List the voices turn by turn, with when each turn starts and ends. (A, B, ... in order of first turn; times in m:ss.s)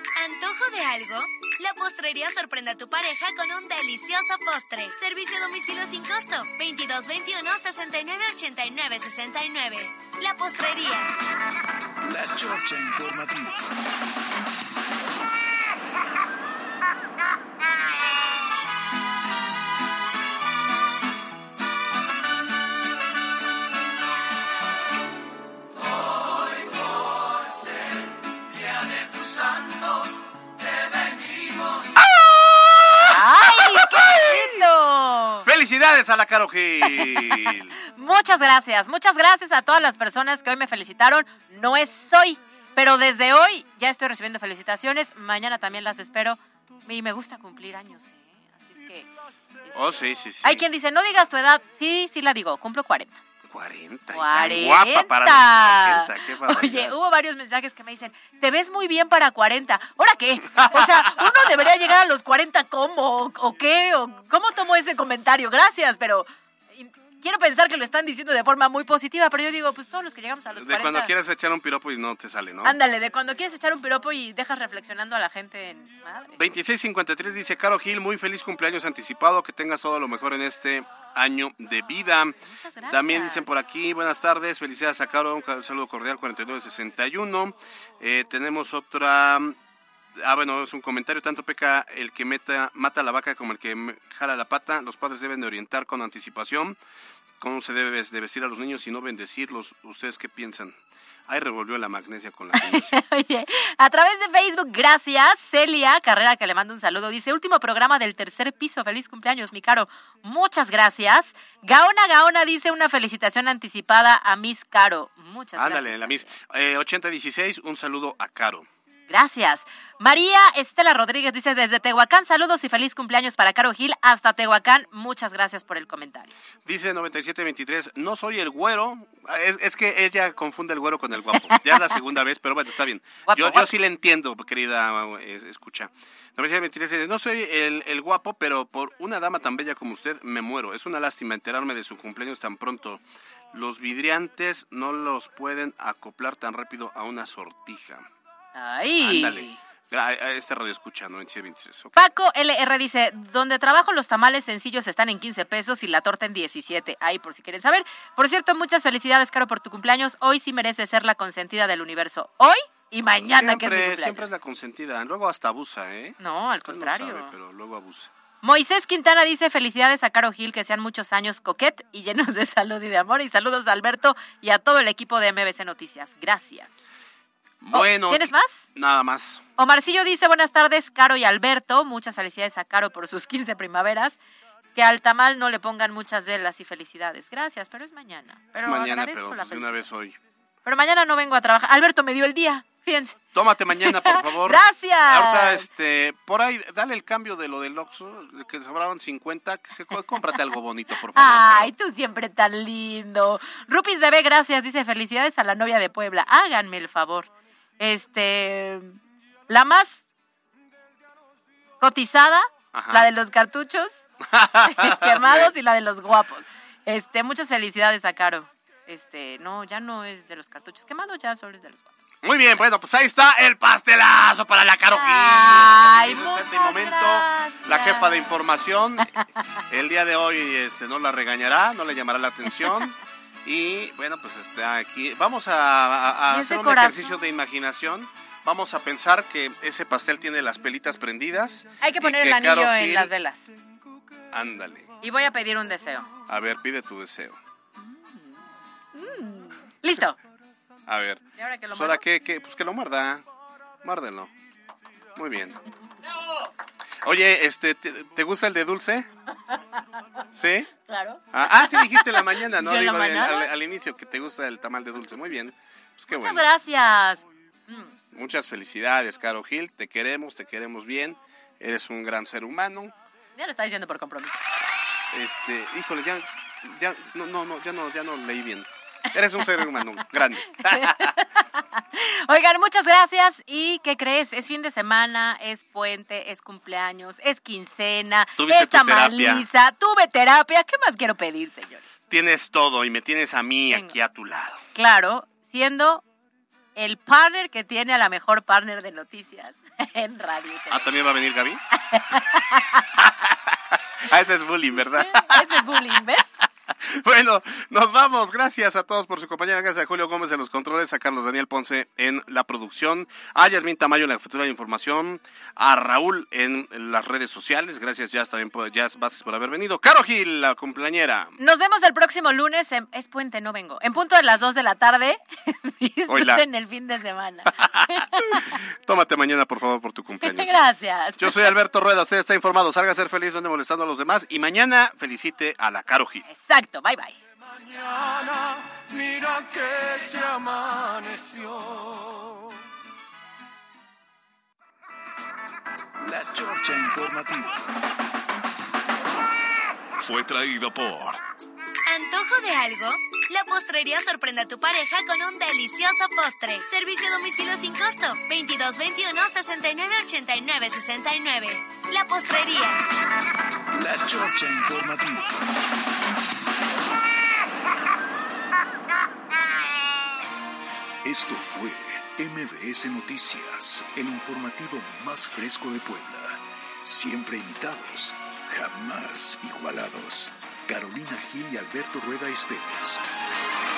0:00.2-0:11.1 A
0:12.0-0:13.7 B
0:32.1-0:34.5 C
0:33.0-0:35.4 D
0:35.4-0:37.8 C
0:37.0-0:49.1 D
0:49.6-0:53.2 D
0:49.8-0:50.7 C
0:53.5-0:56.9 C
0:54.1-1:11.1 D
1:00.6-1:01.1 C
1:10.6-1:12.8 C
1:12.6-1:16.4 D
1:16.4-1:22.4 C
1:22.5-1:23.5 D
1:22.9-1:29.6 C
1:30.2-1:36.8 C
1:37.4-1:40.8 C
1:41.3-1:43.0 C
1:42.6-1:56.3 D
1:55.6-1:58.7 C
1:59.1-2:06.3 D
2:06.7-2:23.0 C
2:13.3-2:13.7 D
2:23.5-2:28.1 C
2:28.6-2:29.6 D
2:29.0-2:31.9 C
2:31.9-2:44.3 D
2:43.0-2:48.1 C
2:46.2-2:47.3 D
2:48.4-2:56.8 D
2:57.6-2:59.4 C
2:57.7-2:58.7 D
2:59.6-3:04.2 D
3:04.8-3:09.9 D
3:08.6-3:10.2 C
3:10.6-3:13.2 D
3:13.3-3:21.7 C
3:13.8-3:15.7 D
3:21.2-3:29.0 D
3:29.5-3:30.0 D
3:31.8-3:34.1 D
3:32.7-3:33.1 C
3:34.3-3:35.5 C
3:34.7-3:41.9 D
3:42.2-4:03.1 C
3:44.9-3:48.3 D
3:56.3-3:57.0 D
4:01.8-4:03.5 D
4:04.3-4:04.9 C
4:05.0-4:06.1 D
4:06.3-4:07.4 C
4:07.8-4:08.4 D
4:08.9-4:10.2 D
4:10.9-4:11.2 C
4:11.4-4:12.0 D
4:11.7-4:13.2 C
4:13.8-4:14.3 C
4:15.2-4:15.6 C
4:17.0-4:19.1 C
4:20.3-4:20.7 C
4:20.9-4:23.5 D
4:21.3-4:26.4 C
4:26.1-4:27.9 D
4:28.1-4:32.9 C
4:33.4-4:34.4 D
4:35.1-4:41.2 C
4:40.6-4:52.0 D
4:48.4-4:49.5 C
4:52.1-4:54.6 C
4:53.7-4:54.0 D
4:54.8-4:56.0 D
4:56.8-5:00.9 D
5:00.7-5:01.6 C
5:01.9-5:02.9 D
5:03.0-5:05.8 C
5:05.0-5:06.3 D
5:06.8-5:21.4 C
5:21.4-5:28.6 D
5:26.1-5:26.4 C
5:27.6-5:30.6 C
5:30.2-5:31.5 D
5:31.2-5:36.2 C
5:36.3-5:37.2 D
5:37.6-5:42.5 E
5:46.0-5:47.7 B
5:50.0-5:51.2 B
5:51.9-6:02.8 A
6:03.7-6:05.4 B
6:11.0-6:23.0 B